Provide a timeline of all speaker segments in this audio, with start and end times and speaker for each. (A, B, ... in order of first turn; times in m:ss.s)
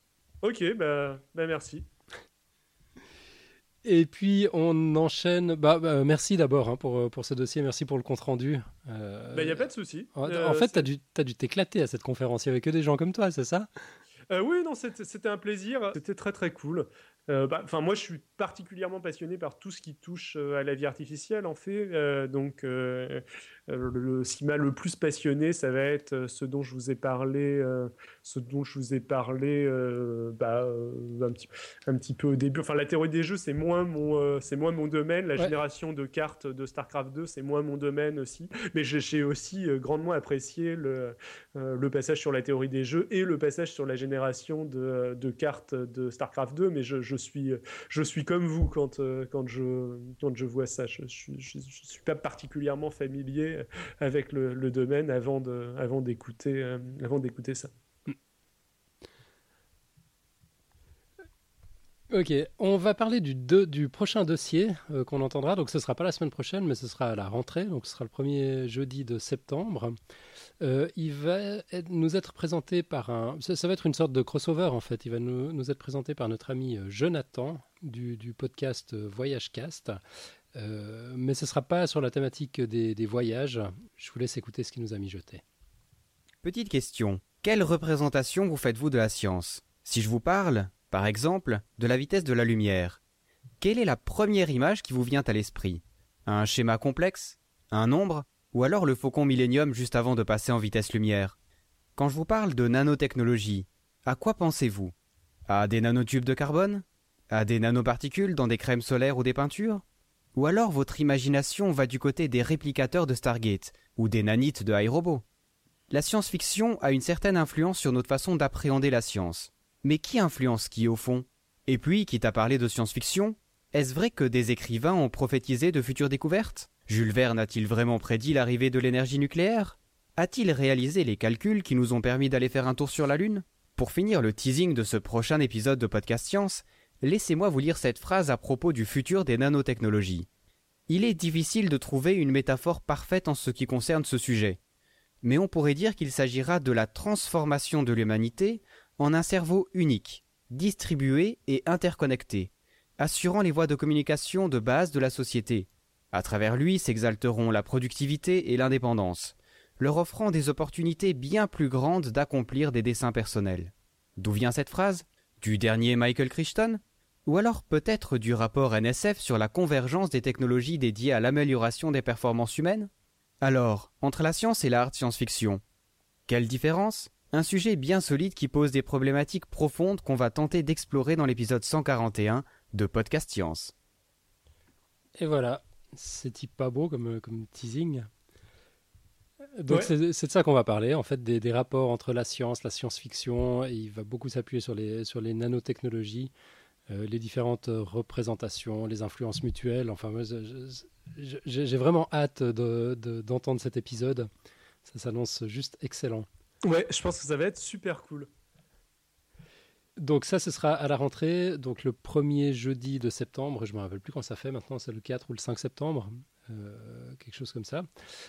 0:00.4-0:01.9 A
0:03.8-0:09.6 B
0:09.3-0:10.9 A
0:10.2-0:13.7 B
0:14.3-0:57.7 A
1:02.1-1:10.0 B
1:10.6-1:20.0 B
1:20.5-1:25.4 B
1:26.4-1:33.0 C
1:33.6-1:41.4 C
1:42.0-1:44.9 C
1:45.5-1:49.8 C
1:50.4-1:55.2 C
1:55.9-2:20.3 C
2:20.9-2:24.6 C
2:25.2-2:52.9 C
2:53.4-2:55.6 C
2:56.3-3:03.7 C
3:05.2-3:08.1 B
3:09.6-3:16.3 B
3:16.9-3:24.3 B
3:24.8-3:26.3 B
3:26.6-3:28.3 A
3:30.0-3:37.9 B